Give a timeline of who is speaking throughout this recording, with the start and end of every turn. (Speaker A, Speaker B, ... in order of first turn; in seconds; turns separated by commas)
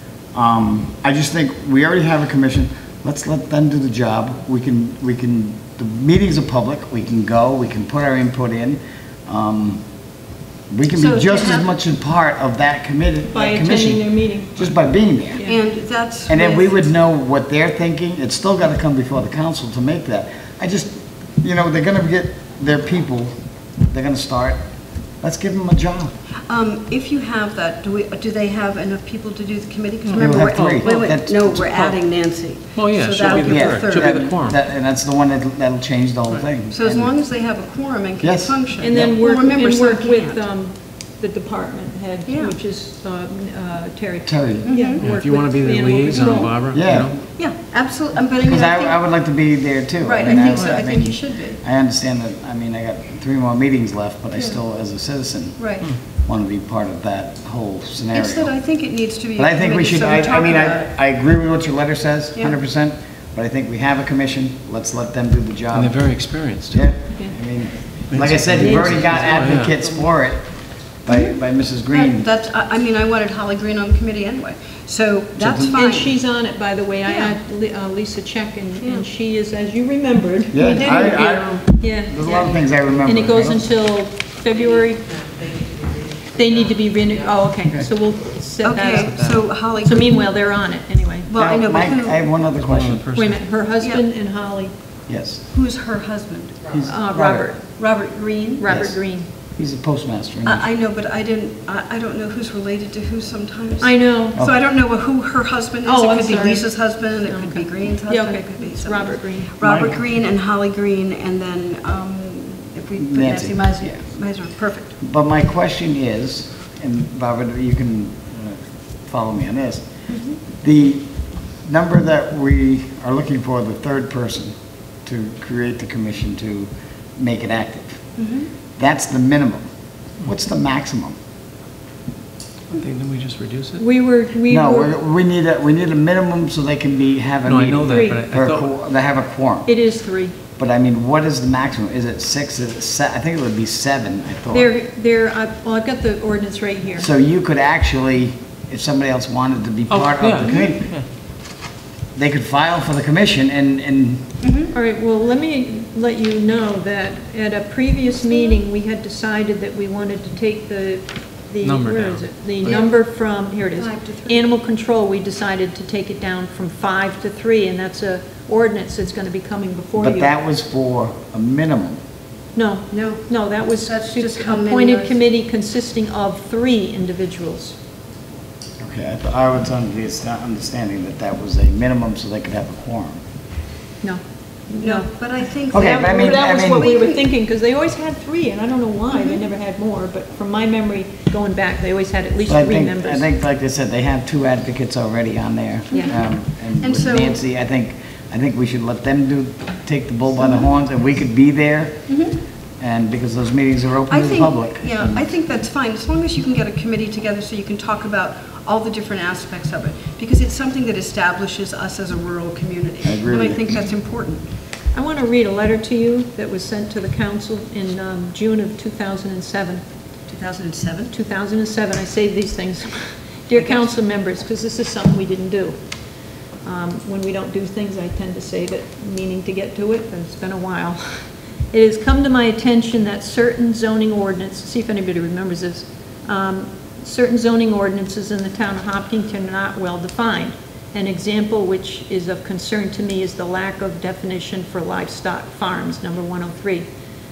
Speaker A: 0.3-9.8, Speaker A: 10.7-15.4, Speaker B: 10.9-11.7, Speaker C: 13.3-14.7, Speaker C: 15.3-15.6, Speaker B: 15.4-16.7, Speaker A: 16.3-23.3, Speaker A: 23.9-24.6, Speaker A: 25.2-26.1, Speaker B: 26.5-34.3, Speaker D: 30.0-32.0, Speaker A: 30.1-31.6, Speaker D: 32.7-34.6, Speaker A: 33.3-37.1, Speaker B: 36.7-40.4, Speaker A: 38.2-39.0, Speaker C: 38.8-46.6, Speaker B: 42.3-42.5, Speaker A: 44.2-44.7, Speaker B: 44.6-45.0, Speaker D: 45.0-47.2, Speaker A: 46.7-47.2, Speaker B: 47.4-49.0, Speaker A: 48.4-58.5, Speaker B: 50.0-51.6, Speaker B: 55.6-55.9, Speaker B: 58.1-60.9, Speaker A: 59.4-66.1, Speaker D: 65.7-66.8, Speaker A: 66.7-70.4, Speaker D: 68.1-70.0, Speaker C: 68.6-69.0, Speaker A: 71.0-72.3, Speaker B: 71.9-76.1, Speaker A: 75.4-75.7, Speaker C: 75.7-85.0, Speaker B: 77.0-77.3, Speaker A: 80.5-83.7, Speaker C: 86.3-89.2, Speaker B: 88.6-90.2, Speaker D: 88.9-89.4, Speaker C: 89.8-91.3, Speaker B: 91.3-92.2, Speaker A: 91.4-93.0, Speaker D: 92.6-93.4, Speaker C: 93.1-94.7, Speaker A: 95.1-95.4, Speaker B: 95.5-96.8, Speaker A: 96.7-97.5, Speaker C: 96.8-97.6, Speaker B: 97.8-98.6, Speaker C: 98.6-99.3, Speaker A: 98.7-99.0, Speaker A: 99.5-100.6, Speaker B: 100.4-114.9, Speaker C: 103.8-104.4, Speaker C: 105.8-109.5, Speaker A: 109.6-110.0, Speaker A: 113.0-114.0, Speaker A: 115.0-119.8, Speaker A: 120.6-121.1, Speaker A: 121.6-124.5, Speaker A: 125.0-128.0, Speaker B: 128.2-128.5, Speaker A: 128.8-129.6, Speaker A: 130.2-131.1, Speaker D: 132.7-133.8, Speaker C: 133.8-134.9, Speaker A: 134.5-139.7, Speaker D: 137.4-138.7, Speaker C: 137.8-138.2, Speaker C: 139.7-140.3, Speaker A: 140.6-144.7, Speaker C: 144.5-147.1, Speaker A: 147.0-150.9, Speaker D: 149.9-151.0, Speaker B: 150.4-150.7, Speaker A: 152.1-154.2, Speaker B: 154.4-154.7, Speaker C: 154.7-170.3, Speaker D: 161.6-162.8, Speaker B: 162.6-162.9, Speaker B: 163.6-164.5, Speaker A: 170.0-172.0, Speaker C: 172.5-177.8, Speaker B: 172.9-173.3, Speaker B: 173.8-175.1, Speaker A: 178.8-183.2, Speaker C: 184.0-185.1, Speaker B: 184.8-187.2, Speaker C: 185.7-193.3, Speaker A: 185.7-187.0, Speaker B: 189.1-189.4, Speaker A: 192.4-202.2, Speaker C: 195.9-196.2, Speaker B: 195.9-196.2, Speaker B: 196.8-197.4, Speaker B: 202.1-202.3, Speaker A: 202.8-205.2, Speaker B: 204.1-214.4, Speaker A: 213.0-213.8, Speaker C: 214.9-219.8, Speaker B: 220.3-221.1, Speaker C: 221.1-225.8, Speaker B: 223.6-223.9, Speaker C: 226.6-231.1, Speaker C: 231.7-246.9